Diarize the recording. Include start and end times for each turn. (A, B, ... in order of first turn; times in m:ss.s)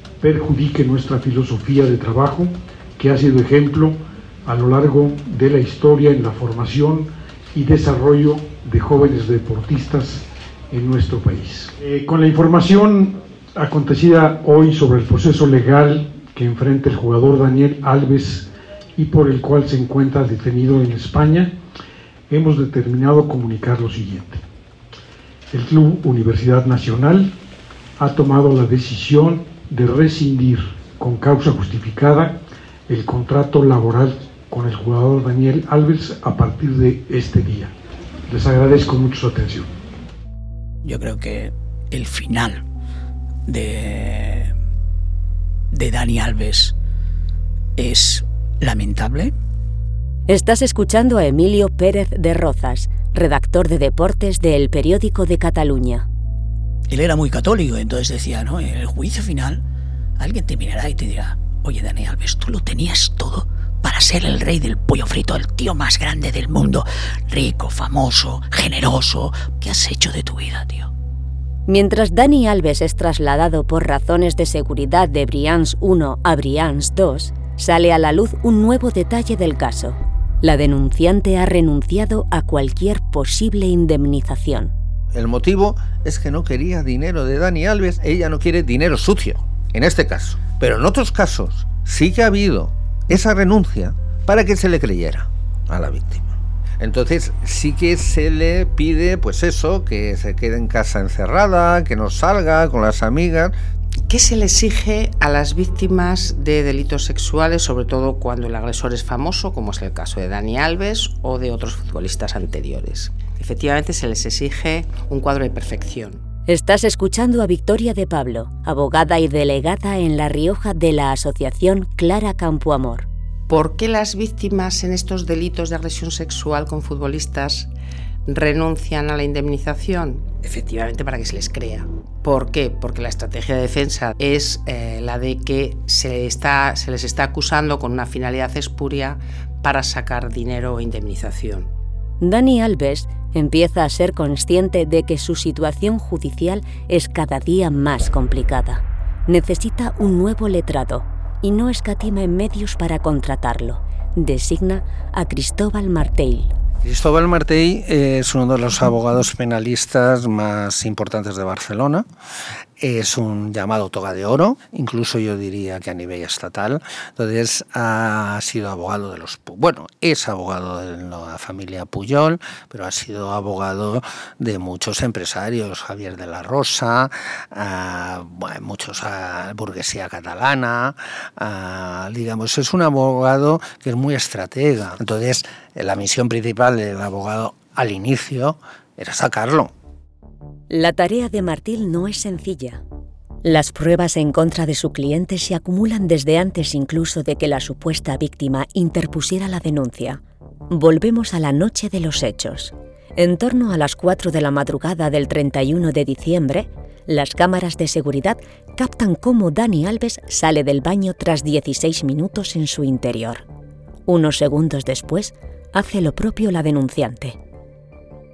0:00.2-0:21.5 A
0:22.3-0:24.4 A
0:25.5-0:27.4 A
0:28.0-0:37.7 A
0:38.3-0:39.7 A
0:40.8-0:42.6 B
0:43.5-0:44.5 B
0:45.7-0:46.8 B
0:47.8-0:49.3 B
0:50.3-0:56.0 C
0:56.9-0:59.6 B
1:00.2-1:10.9 B
1:11.7-1:24.7 C
1:25.1-1:43.6 D
1:44.1-1:56.2 E
1:56.5-2:03.1 C
2:03.5-2:07.7 E
2:08.3-2:21.7 E
2:22.2-2:36.5 C
2:36.8-2:42.0 D
2:42.8-3:09.7 D
3:10.7-3:12.8 C
3:13.4-3:33.4 C
3:34.1-3:37.4 C